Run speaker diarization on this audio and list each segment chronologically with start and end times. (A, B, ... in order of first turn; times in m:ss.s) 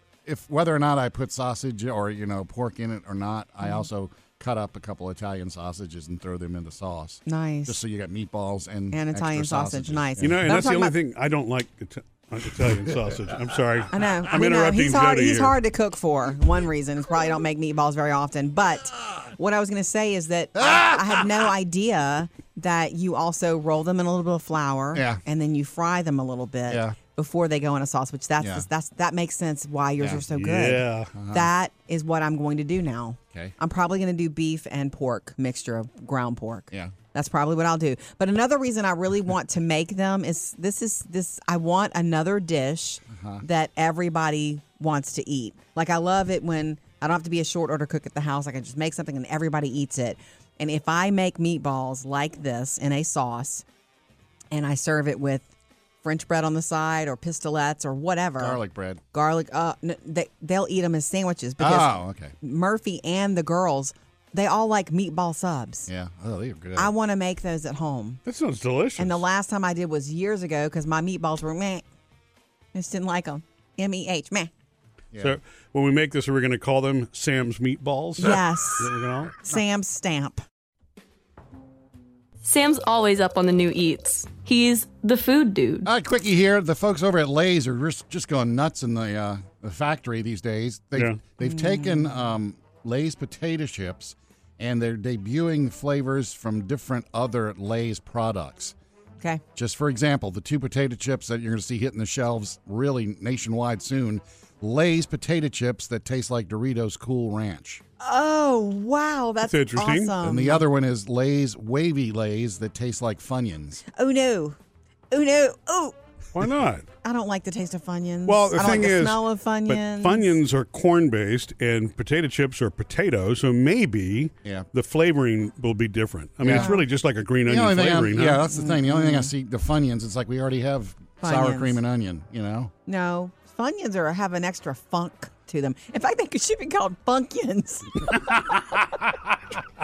0:00.3-0:10.4 A
0:07.3-0:07.8 B
0:08.9-0:10.9 B
0:10.2-0:15.6 C
0:13.9-0:53.6 B
0:20.6-0:21.5 A
0:24.9-0:25.2 A
0:26.7-0:27.0 A
0:28.4-0:28.7 A
0:30.0-0:30.5 A
0:30.4-0:31.1 C
0:31.1-0:31.5 A
0:43.1-0:43.4 A
0:54.5-0:55.5 B
0:56.0-0:58.6 B
0:58.4-0:59.0 A
0:59.1-1:05.9 B
1:01.6-1:02.3 A
1:05.9-1:06.9 A
1:06.8-1:08.2 B
1:08.2-1:09.2 C
1:09.0-1:11.8 B
1:12.7-1:14.5 B
1:15.1-1:15.4 A
1:15.2-1:19.4 C
1:18.2-1:18.9 B
1:19.4-1:20.4 B
1:22.4-1:25.9 D
1:25.8-1:38.8 A
1:31.4-1:32.2 B
1:39.6-1:47.8 A
1:48.0-1:50.7 B
1:49.4-1:50.2 C
1:50.2-1:53.8 A
1:54.0-1:54.6 B
1:55.1-1:56.0 B
1:56.3-1:56.9 C
1:57.0-2:00.4 B
1:58.3-2:08.4 C
2:06.4-2:06.7 A
2:06.4-2:06.8 B
2:07.5-2:12.7 A
2:08.5-2:09.3 B
2:11.2-2:11.8 B
2:12.9-2:18.4 B
2:18.2-2:19.6 C